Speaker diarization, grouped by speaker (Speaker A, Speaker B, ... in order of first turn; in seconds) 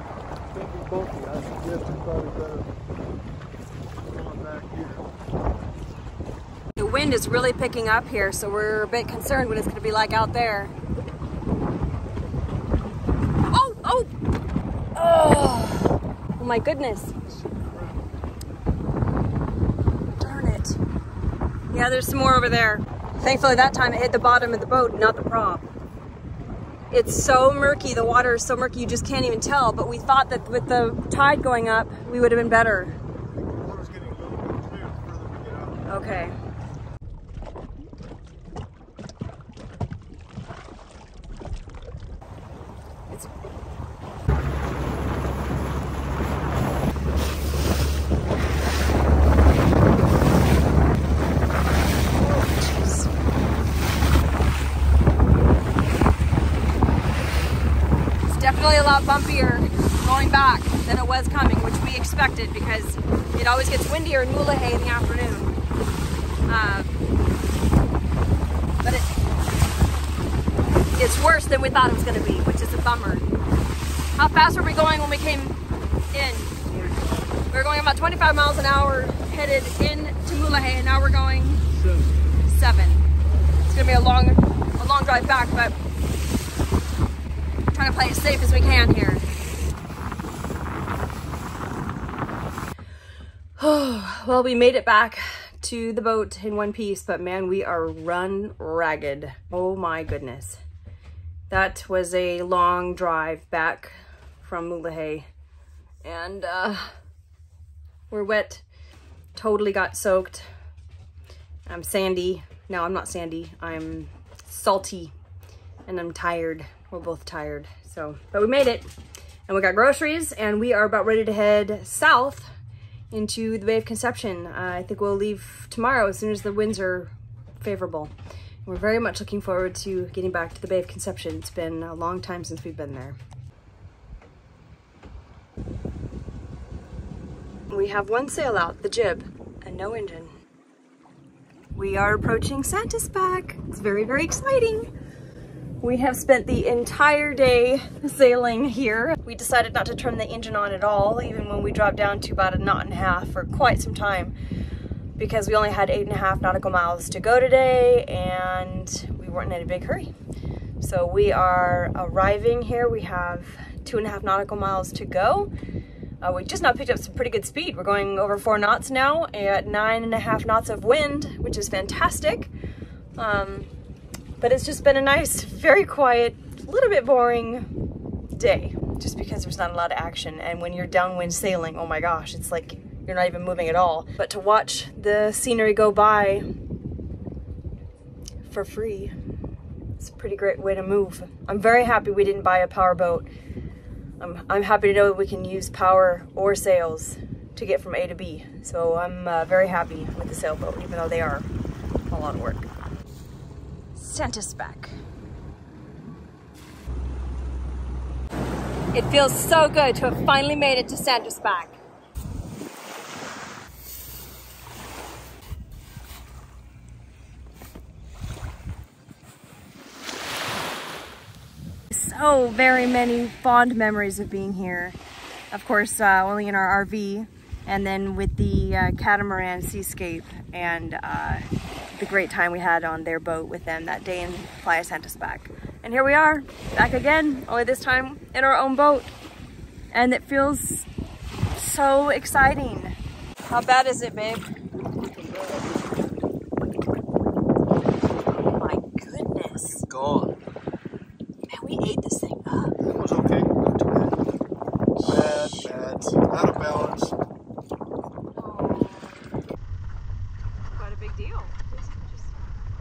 Speaker A: 0.5-2.7, 4.1-5.1, 17.3-18.1, 33.2-35.9, 76.7-77.2, 81.7-82.1, 245.1-245.9, 249.9-250.3, 252.8-254.2, 255.0-257.1
Speaker B: 6.8-10.7, 13.5-14.1, 14.9-17.1, 20.2-20.8, 21.7-25.7, 26.9-33.0, 35.9-36.3, 52.1-53.1, 58.3-65.5, 66.5-66.9, 68.8-69.1, 71.0-73.2, 74.2-75.6, 76.1-76.7, 77.5-81.6, 82.4-83.1, 83.7-85.8, 87.7-89.3, 93.6-100.6, 101.5-105.3, 106.0-106.9, 108.1-108.6, 109.3-110.5, 111.7-115.1, 115.9-118.9, 119.5-122.5, 123.1-128.1, 128.6-133.2, 137.7-140.3, 141.7-144.9, 145.8-154.3, 155.2-160.1, 160.8-165.5, 166.2-172.5, 173.2-173.7, 174.4-177.7, 178.3-186.5, 188.5-189.1, 190.0-193.3, 194.2-201.5, 202.1-202.7, 203.9-204.9, 208.9-211.8, 221.9-225.0, 225.5-239.1, 239.9-240.9, 241.5-243.0, 243.5-244.5, 248.3-249.8, 251.5-252.8, 258.3-259.3, 260.7-262.3